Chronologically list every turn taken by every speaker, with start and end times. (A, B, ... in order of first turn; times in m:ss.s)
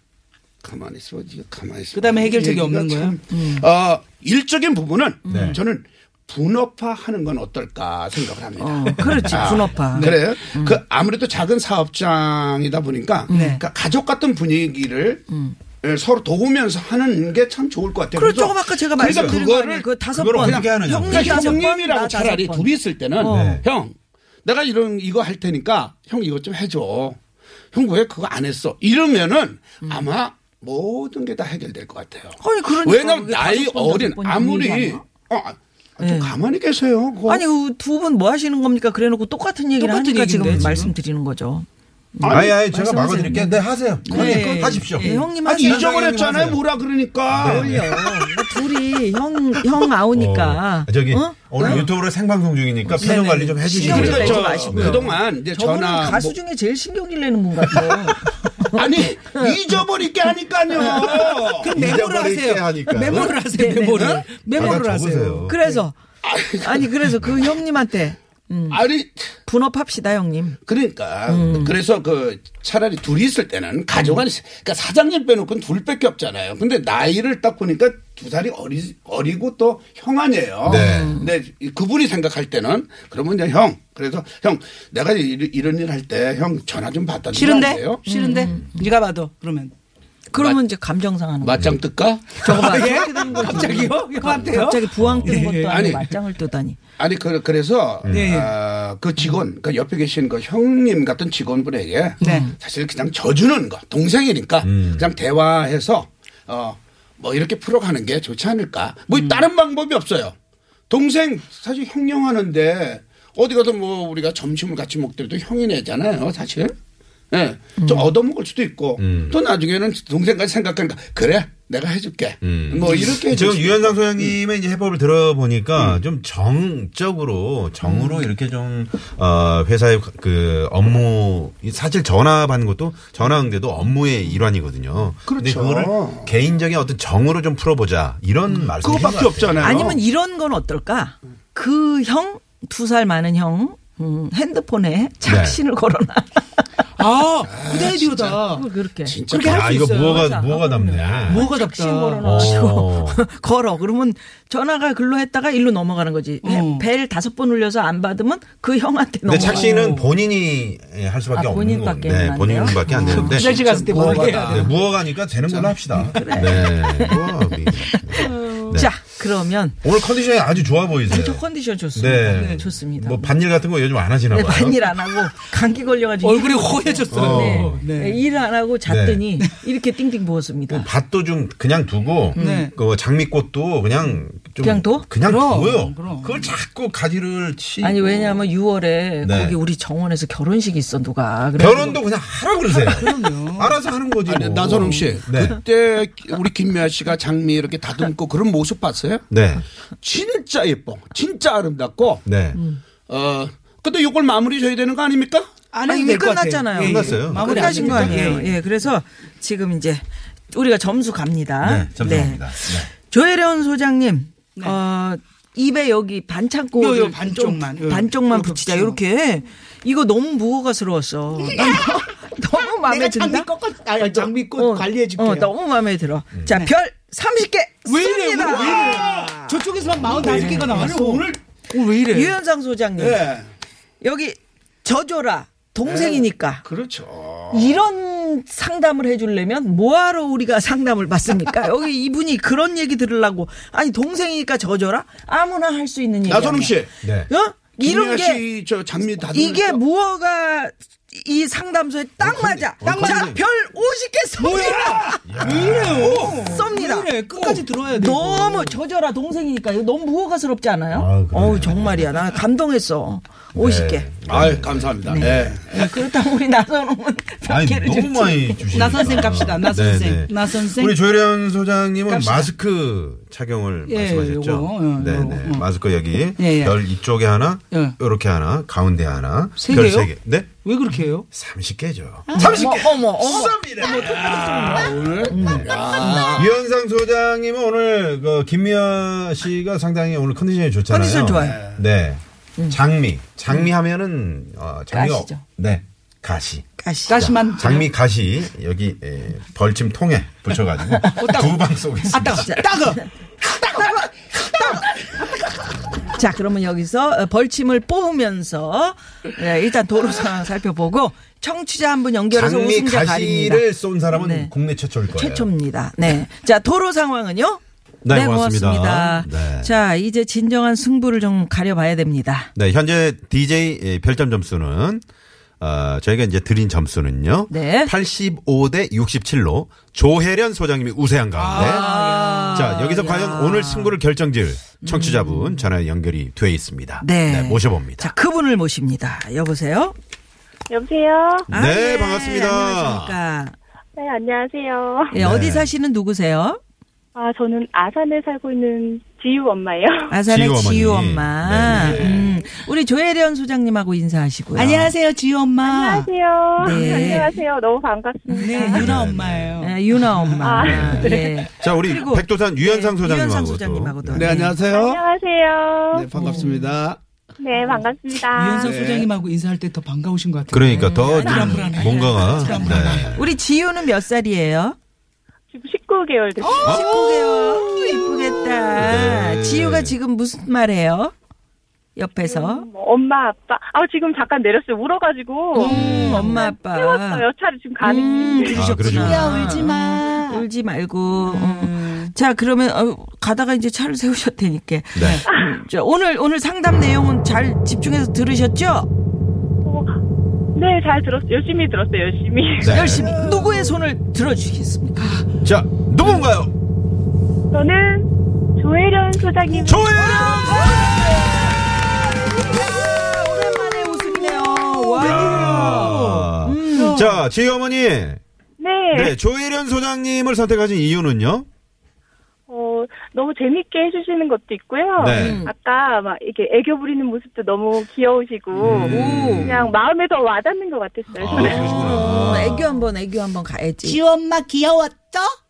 0:00.6-0:15.2 A
0:01.9-0:03.2 B
0:03.3-0:03.6 C
0:05.2-0:05.6 C
0:05.3-0:05.6 D
0:08.6-0:10.8 C
0:08.9-0:09.3 B
0:09.2-0:09.7 D
0:13.3-0:13.6 C
0:13.3-0:13.6 B
0:15.3-0:15.6 C
0:15.8-0:27.2 A
0:18.1-0:23.6 C
0:19.0-0:19.4 D
0:20.1-0:21.6 D
0:23.3-0:23.6 D
0:27.7-0:37.4 A
0:32.4-0:35.0 C
0:36.0-0:36.3 C
0:37.3-0:45.9 C
0:39.8-0:40.9 B
0:40.4-0:40.9 D
0:42.2-0:42.5 A
0:42.3-0:46.6 D
0:44.0-0:45.3 B
0:45.4-0:48.1 A
0:47.3-0:48.0 D
0:47.4-0:51.9 C
0:50.1-0:55.0 D
0:52.9-0:59.8 C
0:53.7-0:56.4 A
0:53.8-0:54.4 B
0:58.7-1:01.9 A
1:00.7-1:01.4 C
1:01.6-1:05.8 B
1:01.7-1:03.4 D
1:03.5-1:04.8 C
1:04.0-1:04.2 A
1:04.5-1:05.6 D
1:05.4-1:06.0 C
1:06.2-1:07.4 A
1:06.6-1:08.8 C
1:08.7-1:09.3 A
1:09.4-1:10.6 C
1:10.6-1:28.0 A
1:11.3-1:11.7 C
1:20.6-1:21.2 D
1:20.7-1:21.3 C
1:27.3-1:29.7 B
1:28.1-1:28.8 C
1:30.3-1:31.8 C
1:31.4-1:33.6 A
1:32.4-1:36.8 C
1:32.4-1:36.0 B
1:35.0-1:35.4 D
1:35.7-1:36.1 A
1:37.0-1:50.3 A
1:38.0-1:38.3 D
1:38.1-1:38.6 B
1:42.2-1:42.5 B
1:42.2-1:42.5 C
1:44.6-1:45.1 D
1:49.1-1:49.4 B
1:50.9-1:56.7 A
1:57.3-2:04.4 A
1:57.8-1:58.1 C
1:59.0-1:59.4 D
2:02.4-2:19.8 D
2:07.8-2:08.3 C
2:15.3-2:16.3 A
2:18.8-2:20.0 A
2:19.6-2:26.4 C
2:25.2-2:25.6 D
2:27.0-2:28.6 B
2:27.4-2:29.9 A
2:28.5-2:29.2 C
2:29.3-2:30.3 B
2:29.4-2:31.4 D
2:29.8-2:39.9 C
2:31.2-2:32.4 B
2:32.2-2:33.2 D
2:36.4-2:36.9 B
2:39.2-2:49.0 D
2:39.4-2:40.1 B
2:41.3-2:43.4 C
2:42.9-2:44.7 B
2:43.2-2:44.9 A
2:45.4-2:45.8 A
2:46.0-2:49.9 C
2:48.3-2:48.8 B
2:49.8-2:51.4 D
2:51.1-2:53.3 C
2:51.9-2:54.8 D
2:52.3-2:52.7 B
2:54.3-3:00.9 C
2:56.2-2:58.2 B
2:57.1-2:57.8 D
2:58.8-2:59.2 D
3:00.7-3:08.5 D
3:02.3-3:02.7 C
3:02.4-3:02.7 B
3:04.6-3:05.0 C
3:05.2-3:06.5 B
3:07.8-3:12.0 C
3:09.2-3:09.6 D
3:11.6-3:15.6 D
3:12.7-3:13.8 B
3:14.2-3:19.2 A
3:14.8-3:15.1 B
3:19.3-3:19.6 D
3:20.0-3:22.2 A
3:22.2-3:22.6 D
3:22.5-3:22.8 C
3:23.1-3:25.5 A
3:25.7-3:28.6 B
3:25.9-3:49.6 C
3:26.8-3:28.3 D
3:31.6-3:32.9 D
3:36.7-3:39.0 B
3:41.4-3:41.9 B
3:42.8-3:45.5 B
3:47.8-3:52.4 B
3:48.4-3:49.3 A
3:50.0-3:51.4 A
3:50.1-3:51.0 C
3:52.1-3:53.2 C
3:53.0-3:53.5 A
3:54.0-3:56.6 C
3:55.8-3:57.8 A
3:57.5-4:08.4 C
4:06.2-4:06.9 A
4:07.0-4:07.3 D
4:07.8-4:09.8 A
4:09.3-4:24.1 C
4:12.2-4:13.4 D
4:12.8-4:13.3 B
4:14.4-4:18.8 B
4:15.2-4:16.2 D
4:16.0-4:16.5 A
4:20.9-4:22.1 D
4:23.5-4:25.6 D
4:24.3-4:25.9 A
4:25.0-4:29.7 C
4:27.4-4:40.6 D
4:28.7-4:31.0 B
4:32.1-4:32.5 B
4:33.9-4:35.7 B
4:36.4-4:36.8 B
4:37.7-4:38.0 B
4:39.6-4:41.3 B
4:41.3-4:45.7 D
4:42.3-4:42.7 B
4:42.3-4:43.9 C
4:43.8-4:44.9 B
4:44.0-4:46.5 A
4:45.2-4:46.5 C
4:46.3-5:02.5 D
4:50.9-4:51.6 C
4:51.4-4:51.8 A
4:54.9-4:55.4 C
4:56.8-4:57.3 C
4:57.1-4:57.9 B
5:01.1-5:03.0 B
5:02.3-5:03.0 C
5:03.8-5:04.8 C
5:05.9-5:14.5 C
5:12.3-5:15.5 D
5:15.1-5:22.5 C
5:18.0-5:19.7 D
5:22.5-5:25.0 D
5:25.6-5:31.9 D
5:27.5-5:27.9 C
5:31.3-5:32.7 B
5:31.5-5:33.9 C
5:32.5-5:38.1 D
5:34.9-5:35.7 C
5:37.0-5:39.9 C
5:40.7-5:41.5 E
5:41.5-5:43.2 D
5:41.5-5:43.6 C
5:44.0-5:45.1 E
5:45.1-5:46.6 C
5:45.1-5:45.7 D
5:47.1-5:50.2 E
5:50.1-5:54.9 C
5:50.2-5:52.4 D
5:54.5-5:56.1 B
5:55.6-5:58.9 E
5:56.6-5:57.3 C
5:58.3-6:00.4 B
5:58.4-5:58.8 C
5:58.7-5:59.7 D
5:59.6-6:04.6 C
6:00.4-6:01.4 E
6:00.6-6:04.3 D
6:04.1-6:05.0 A
6:04.6-6:06.1 E
6:05.9-6:07.0 A
6:06.1-6:06.6 C
6:07.4-6:08.8 E
6:08.3-6:13.1 B
6:08.6-6:09.1 A
6:10.5-6:13.4 D
6:10.8-6:14.8 C
6:11.3-6:11.5 E
6:15.5-6:17.1 E
6:16.4-6:18.2 B
6:16.6-6:21.1 C
6:18.7-6:20.0 D
6:21.9-6:22.6 C
6:22.2-6:28.7 E
6:25.6-6:26.3 B
6:25.6-6:27.2 C
6:25.7-6:26.3 D
6:27.8-6:38.9 C
6:28.5-6:29.6 D
6:28.7-6:30.4 B
6:31.2-6:32.1 B
6:34.9-6:35.2 D
6:36.7-6:37.1 D
6:40.5-6:42.8 E
6:42.6-6:43.2 D
6:42.6-6:45.2 C
6:43.0-6:43.7 B
6:45.4-6:46.5 D
6:47.5-6:50.1 E
6:49.5-6:51.3 D
6:49.7-6:57.1 C
6:53.9-6:57.2 B
6:55.0-6:58.2 D
6:58.6-6:59.1 E
6:58.9-7:01.5 D
7:02.5-7:12.0 E
7:05.0-7:05.5 D
7:05.0-7:05.5 C
7:08.6-7:09.7 D
7:08.8-7:09.6 C
7:11.2-7:12.7 D
7:11.3-7:14.0 C
7:13.8-7:15.4 B